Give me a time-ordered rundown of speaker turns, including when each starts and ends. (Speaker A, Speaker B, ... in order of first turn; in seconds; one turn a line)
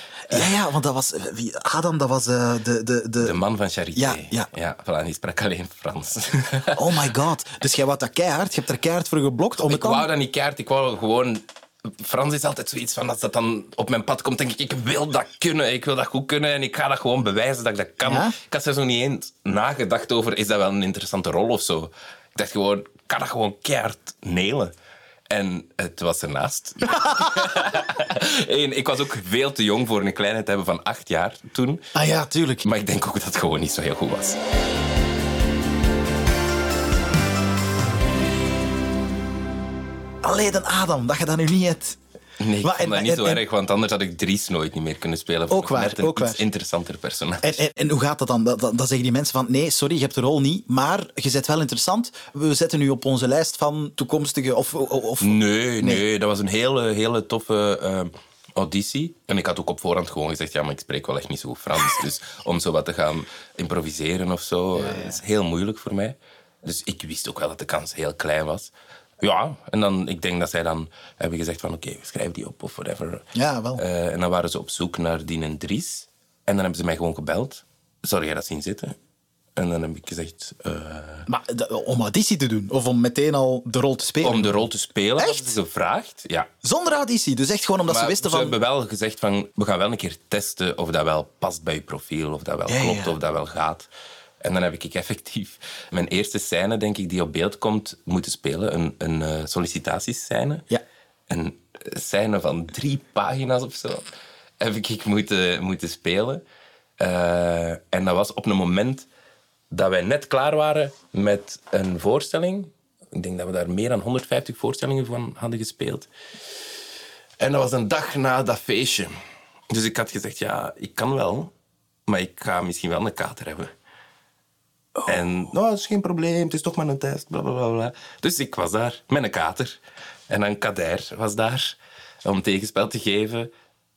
Speaker A: 0.3-3.4
Speaker B: 3.2-6.9
Speaker A: 3.9-4.5
Speaker A: 6.7-10.1
Speaker B: 9.7-24.7
Speaker A: 18.0-18.3
Speaker B: 25.3-31.9
Speaker A: 26.9-27.3
Speaker A: 31.9-32.6
Speaker B: 32.6-34.4
Speaker A: 40.2-42.0
Speaker B: 42.4-47.6
Speaker A: 42.6-43.4
Speaker A: 45.5-46.4
Speaker A: 47.4-56.0
Speaker B: 55.2-78.9
Speaker A: 64.7-65.2
Speaker A: 73.3-73.8
Speaker B: 79.5-81.3
Speaker A: 81.3-84.7
Speaker B: 84.2-86.5
Speaker A: 85.2-85.5
Speaker A: 86.6-88.5
Speaker B: 87.9-93.9
Speaker A: 92.7-93.2
Speaker B: 94.4-100.7
Speaker B: 101.3-104.0
Speaker B: 104.6-106.4
Speaker B: 107.0-109.1
Speaker B: 109.7-116.1
Speaker B: 117.4-119.1
Speaker B: 119.7-121.5
Speaker B: 122.1-123.7
Speaker B: 125.0-133.5